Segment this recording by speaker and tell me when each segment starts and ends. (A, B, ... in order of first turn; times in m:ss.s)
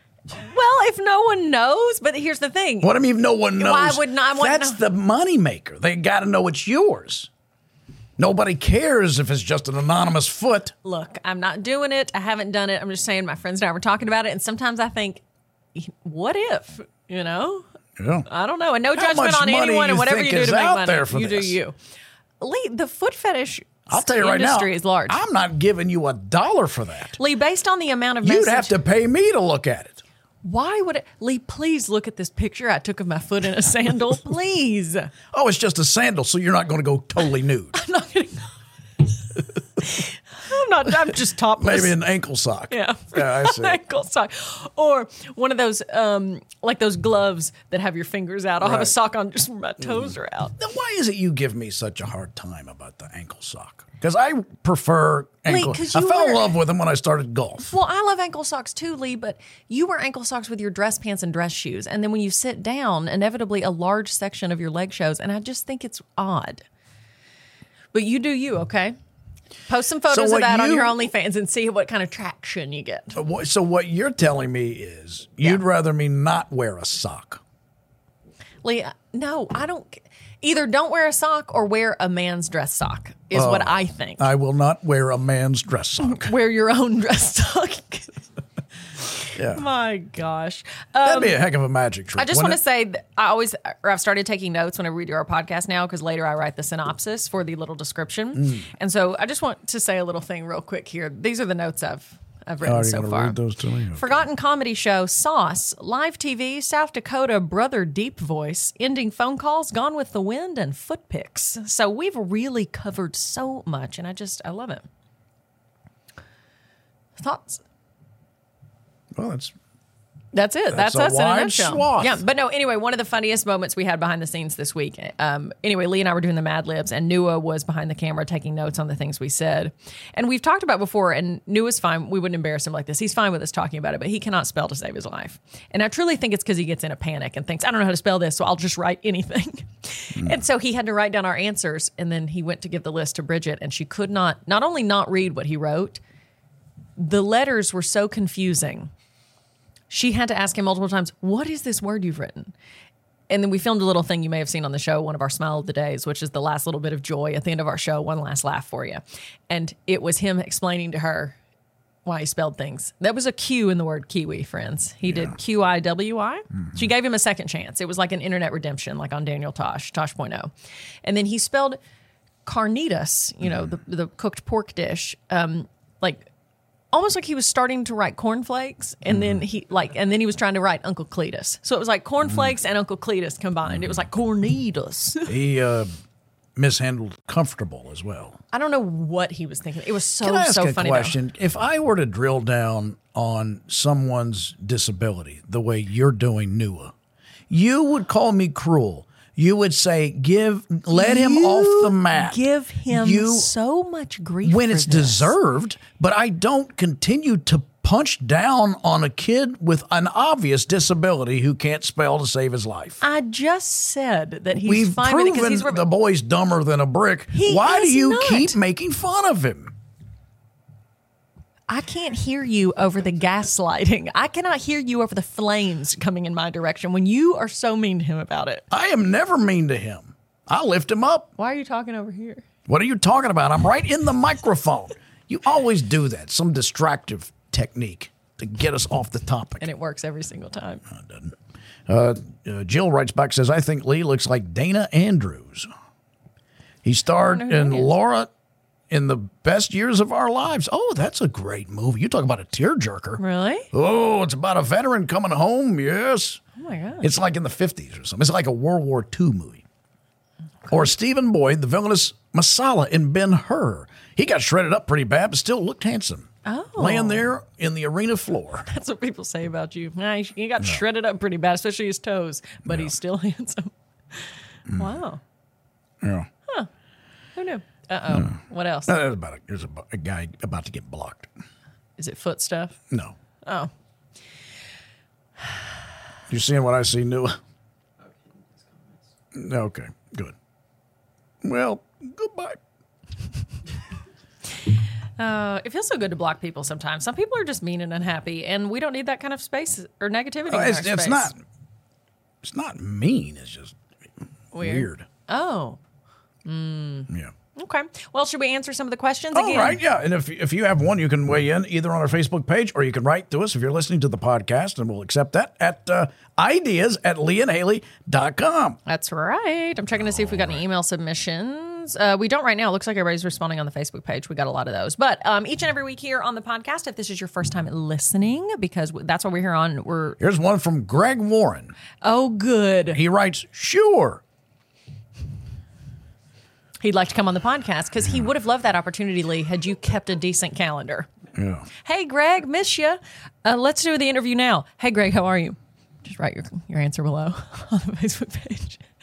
0:00.4-0:02.9 A
0:02.8-0:07.3 B
0:03.6-0:04.8 A
0:08.2-0:10.7 B
0:10.8-0:15.2 A
0:15.8-0:17.6 A
0:18.0-0:18.3 B
0:18.3-0:21.8 A
0:18.9-0:21.6 B
0:22.4-0:25.2 A
0:23.9-0:27.2 B
0:27.2-0:28.8 A
0:28.2-0:30.0 B
0:30.4-0:35.1 A
0:35.3-0:37.8 B
0:37.7-0:38.5 A
0:39.8-0:42.0 A
0:41.6-0:43.8 B
0:42.7-0:50.6 A
0:48.6-0:48.9 B
0:49.8-0:57.8 B
0:55.5-0:56.6 A
0:57.7-1:06.6 A
1:07.9-1:09.0 A
1:09.7-1:13.2 A
1:10.1-1:11.1 B
1:13.1-1:17.4 B
1:18.6-1:24.3 A
1:23.3-1:26.3 B
1:26.0-1:28.2 A
1:29.3-1:31.4 A
1:29.4-1:29.6 B
1:31.0-1:32.6 B
1:32.2-1:43.4 A
1:38.4-1:38.6 B
1:42.6-1:44.1 B
1:43.9-1:54.8 A
1:57.2-1:57.6 A
1:59.2-1:59.5 B
2:00.3-2:26.0 A
2:00.7-2:02.2 B
2:27.0-2:28.9 A
2:29.9-2:32.5 A
2:33.3-2:41.4 A
2:42.0-2:50.5 A
2:51.0-2:51.8 A
2:52.5-2:56.3 A
2:56.9-3:05.4 A
3:05.3-3:05.9 B
3:06.6-3:08.4 B
3:08.5-3:11.2 A
3:10.2-3:16.9 B
3:17.5-3:23.5 B
3:20.9-3:25.4 A
3:24.4-3:33.0 B
3:33.0-3:35.8 A
3:34.6-3:39.7 B
3:37.3-3:38.6 A
3:41.7-3:48.6 A
3:48.7-3:51.3 B
3:51.4-3:52.4 A
3:52.7-3:59.7 B
3:59.6-4:00.8 A
4:00.9-4:01.4 B
4:01.9-4:05.7 B
4:06.8-4:08.3 B
4:07.2-4:07.9 A
4:08.9-4:13.2 B
4:13.2-4:13.7 A
4:13.7-4:16.4 B
4:16.6-4:17.1 A
4:17.0-4:19.6 B
4:20.7-4:28.6 B
4:26.4-4:27.2 A
4:28.7-4:35.2 A
4:32.6-4:32.9 B
4:36.0-4:36.3 B
4:37.4-4:39.0 A
4:38.9-4:41.3 B
4:42.0-4:42.8 A
4:43.4-4:43.7 A
4:46.3-4:47.4 B
4:49.3-4:50.4 B
4:51.4-4:52.6 B
4:55.2-5:01.3 A
5:00.5-5:01.4 B
5:02.4-5:03.8 B
5:04.5-5:05.8 A
5:04.5-5:05.1 B
5:06.4-5:09.8 A
5:09.3-5:18.8 B
5:18.9-5:30.2 A
5:20.0-5:20.6 B
5:30.2-5:31.7 B
5:32.0-5:33.0 A
5:32.9-5:34.2 B
5:36.8-5:41.1 A
5:41.4-5:41.7 B
5:41.8-5:48.8 A